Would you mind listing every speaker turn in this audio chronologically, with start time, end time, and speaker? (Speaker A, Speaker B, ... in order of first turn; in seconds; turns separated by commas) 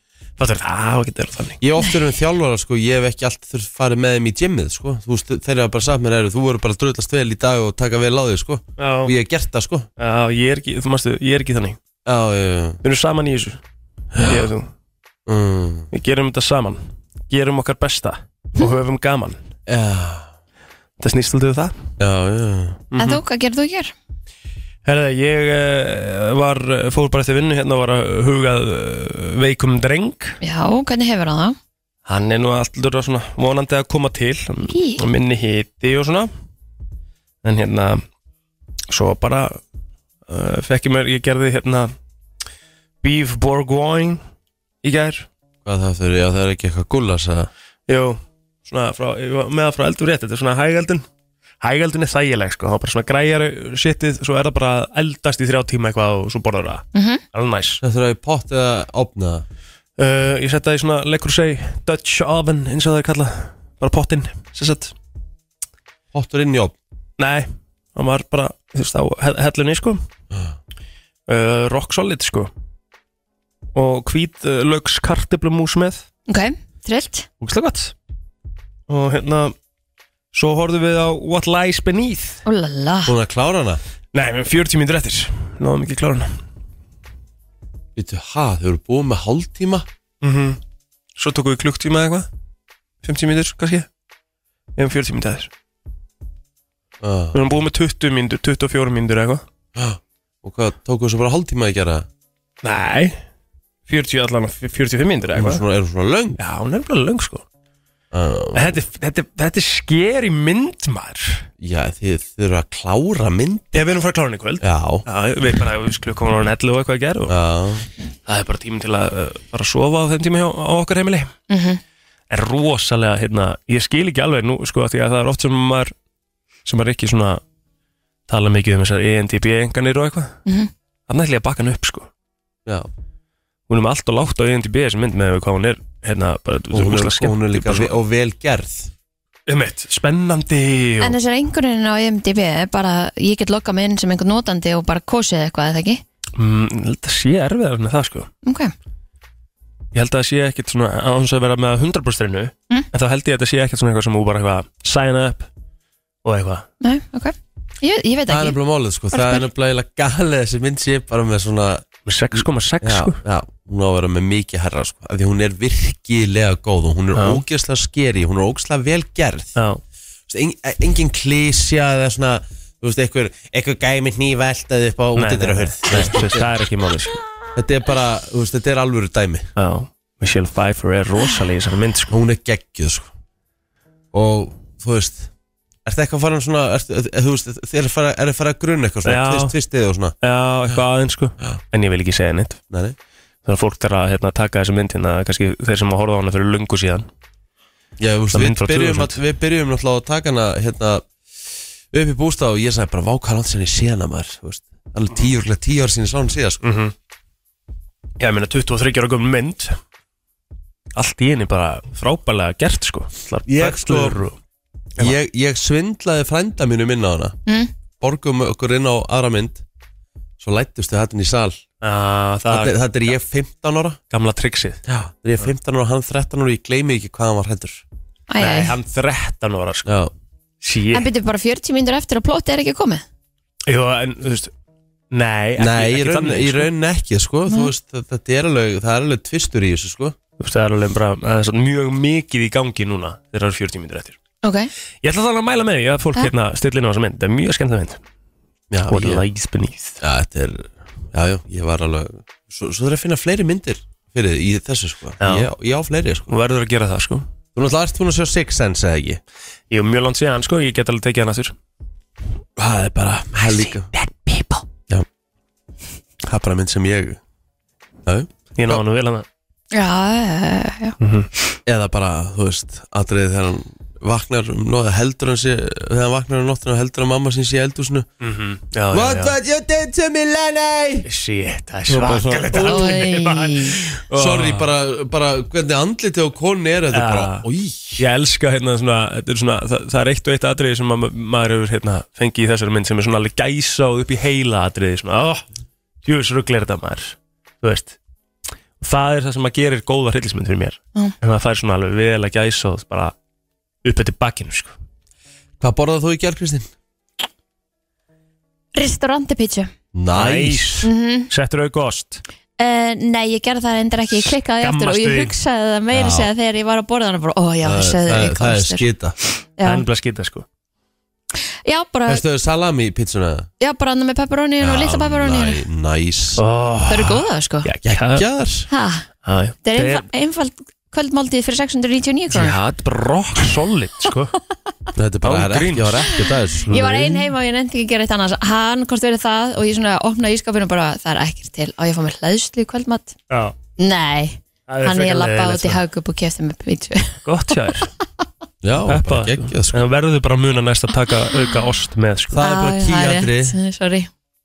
Speaker A: 0.4-1.6, Speaker B: 1.6-9.9, Speaker A: 8.8-9.1, Speaker A: 10.0-11.8, Speaker B: 12.0-12.8, Speaker A: 12.8-13.6, Speaker B: 14.1-14.5, Speaker A: 14.2-14.7, Speaker B: 15.2-15.9, Speaker A: 15.9-19.4, Speaker B: 19.7-20.3, Speaker A: 21.0-21.7, Speaker B: 22.0-22.8, Speaker A: 22.9-23.2, Speaker C: 23.0-23.9, Speaker A: 24.8-30.4, Speaker C: 30.4-31.6, Speaker A: 32.0-36.3, Speaker C: 34.7-35.0, Speaker A: 37.4-38.0, Speaker A: 38.9-39.6, Speaker A: 40.3-41.9, Speaker A: 43.0-44.2, Speaker A: 44.8-45.3, Speaker B: 45.6-47.5, Speaker A: 47.9-51.0, Speaker A: 51.6-57.8, Speaker C: 56.9-57.2, Speaker B: 57.8-59.4, Speaker A: 60.0-64.9, Speaker B: 66.1-66.7, Speaker A: 67.2-70.0, Speaker A: 71.3-72.5, Speaker A: 73.7-76.0, Speaker C: 76.3-77.3, Speaker A: 77.4-77.9, Speaker A: 78.9-79.5, Speaker A: 80.3-82.4, Speaker C: 82.4-83.1, Speaker B: 83.0-83.8, Speaker A: 84.1-86.3, Speaker B: 88.0-89.9, Speaker A: 90.2-90.6, Speaker A: 91.2-92.3, Speaker A: 93.0-93.9, Speaker A: 94.8-95.5, Speaker B: 97.0-97.4, Speaker A: 97.3-99.4, Speaker B: 99.7-102.1, Speaker A: 102.6-103.2, Speaker A: 103.9-105.6, Speaker B: 105.3-106.4, Speaker A: 106.4-107.4, Speaker B: 108.1-108.8, Speaker A: 108.5-111.5, Speaker B: 111.6-113.8, Speaker A: 113.7-117.3, Speaker B: 114.6-115.0, Speaker B: 117.3-117.9, Speaker A: 118.3-121.3, Speaker C: 121.5-121.8, Speaker A: 122.3-125.9, Speaker A: 126.7-127.4, Speaker A: 128.3-130.4, Speaker C: 130.4-130.7, Speaker A: 131.1-132.1, Speaker A: 133.7-137.9, Speaker B: 136.7-138.9, Speaker A: 139.5-141.1, Speaker C: 141.0-146.0, Speaker A: 146.3-148.3, Speaker C: 148.4-148.7, Speaker A: 149.9-155.5, Speaker A: 156.2-156.6, Speaker C: 156.8-158.6, Speaker B: 158.3-169.5, Speaker C: 159.1-159.5, Speaker A: 162.1-163.2, Speaker A: 167.1-167.4, Speaker A: 169.6-169.8, Speaker B: 170.3-176.5, Speaker A: 175.2-177.2, Speaker B: 177.5-179.5, Speaker A: 179.6-182.1, Speaker B: 182.1-183.1, Speaker B: 184.1-185.3, Speaker B: 185.8-190.1, Speaker A: 189.0-189.5, Speaker A: 190.2-192.6, Speaker B: 192.7-193.0, Speaker A: 193.4-197.1, Speaker B: 198.0-201.0, Speaker A: 198.3-199.2, Speaker B: 201.9-206.6, Speaker A: 206.6-206.9, Speaker A: 208.2-209.8, Speaker A: 210.9-214.4, Speaker B: 213.5-214.2, Speaker B: 215.0-217.4, Speaker B: 218.0-219.6, Speaker B: 220.4-221.6, Speaker A: 221.8-222.8, Speaker B: 222.5-224.0, Speaker A: 224.1-224.8, Speaker B: 224.9-227.8, Speaker C: 228.3-228.7, Speaker A: 228.4-229.9, Speaker B: 229.8-230.1, Speaker A: 230.6-231.1, Speaker C: 230.9-233.0, Speaker A: 233.7-234.5, Speaker A: 235.1-236.7, Speaker B: 235.6-240.2, Speaker A: 240.4-244.2, Speaker C: 244.4-244.7, Speaker A: 245.0-248.0, Speaker B: 248.7-249.2, Speaker A: 248.8-250.0, Speaker B: 250.0-256.3, Speaker A: 255.2-255.5, Speaker A: 256.3-257.2, Speaker B: 257.5-259.2, Speaker A: 259.7-261.5, Speaker B: 262.6-263.9, Speaker A: 263.3-264.6, Speaker B: 266.2-267.2, Speaker B: 268.0-268.8, Speaker A: 268.5-269.2, Speaker C: 269.7-270.9, Speaker A: 271.0-271.3, Speaker B: 271.6-278.1, Speaker A: 278.2-279.3, Speaker B: 278.9-281.1, Speaker A: 281.1-284.7, Speaker B: 281.9-283.0, Speaker C: 282.5-283.8, Speaker B: 284.1-288.0, Speaker A: 286.9-287.4, Speaker A: 288.0-295.4, Speaker A: 296.0-297.9, Speaker A: 298.8-303.1, Speaker A: 303.8-304.7, Speaker B: 305.6-306.7, Speaker C: 308.7-309.7, Speaker B: 309.9-310.7, Speaker A: 310.1-312.2, Speaker C: 310.8-311.3, Speaker C: 312.6-318.9, Speaker A: 314.2-315.3, Speaker B: 315.9-316.3, Speaker B: 317.6-319.1, Speaker C: 319.6-319.8, Speaker A: 319.6-320.4, Speaker C: 321.6-322.2, Speaker B: 322.1-323.5, Speaker C: 323.6-325.6, Speaker B: 324.6-326.4, Speaker A: 326.4-328.2, Speaker C: 326.9-327.7, Speaker B: 327.8-328.7, Speaker C: 328.7-329.1, Speaker A: 329.2-330.1, Speaker C: 329.6-332.6, Speaker A: 332.3-334.3, Speaker B: 334.9-336.9, Speaker A: 335.2-336.1, Speaker A: 336.6-337.2, Speaker C: 336.6-343.1, Speaker A: 343.3-343.5, Speaker C: 343.8-347.2, Speaker A: 344.7-345.8, Speaker A: 347.2-347.9, Speaker B: 348.6-349.8, Speaker A: 348.9-352.4, Speaker B: 352.3-353.5, Speaker C: 352.3-354.1